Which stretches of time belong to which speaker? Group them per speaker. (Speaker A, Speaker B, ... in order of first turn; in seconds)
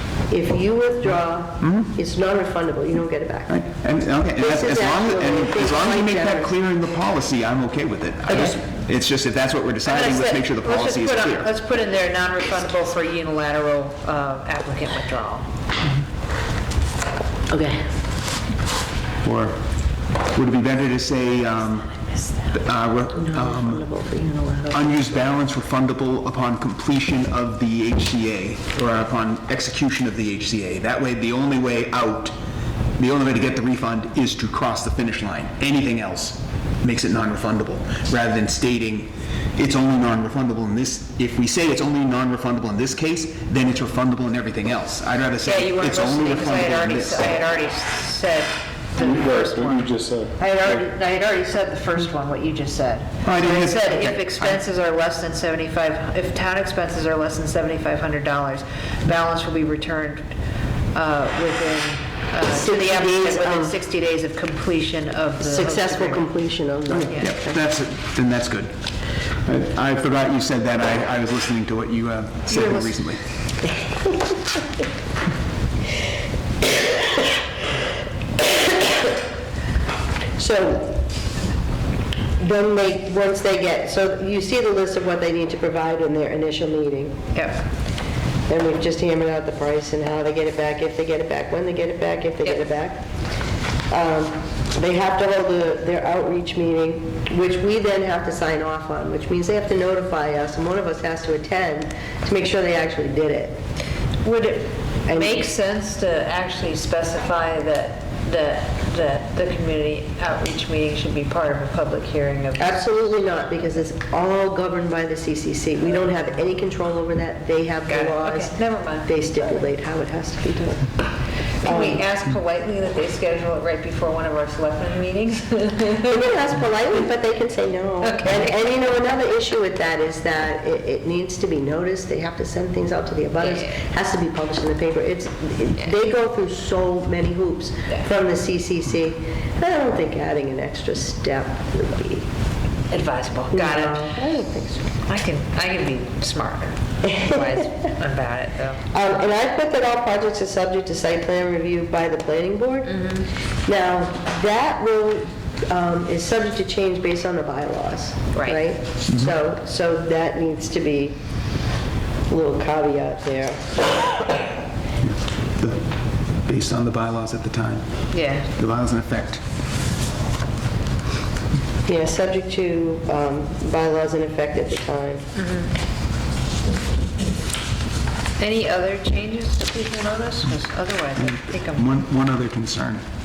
Speaker A: 0.3-3.5, 4.3-6.5, 8.3-8.6, 17.5-17.9, 23.2-25.1, 62.5-63.7, 65.4-67.6, 72.5-72.9, 73.8-74.6, 80.4-81.0, 82.4-87.2, 88.5-93.0, 93.9-103.6, 105.0-105.4, 112.6-120.9, 121.6-122.0, 126.0-142.3, 143.5-144.9, 147.1-147.5, 148.9-153.0, 153.6-161.2, 162.3-164.1, 171.8-175.2
Speaker B: 1.6-1.9, 3.5-11.5, 19.2-19.6, 20.3-23.9, 24.7-32.3, 33.0-47.4, 53.2-54.6, 66.9-68.8, 69.4-73.2, 165.0-165.9, 166.4-169.4, 181.2-183.0
Speaker C: 9.8-15.5, 45.4-60.2, 60.9-66.3, 87.3-87.7, 104.2-112.9, 117.9-119.6, 121.6-126.4, 128.0-128.7, 133.4-133.7, 142.9-144.2, 145.1-148.8, 152.9-153.3, 158.3-158.7, 168.1-168.5, 175.3-175.7, 178.4-181.9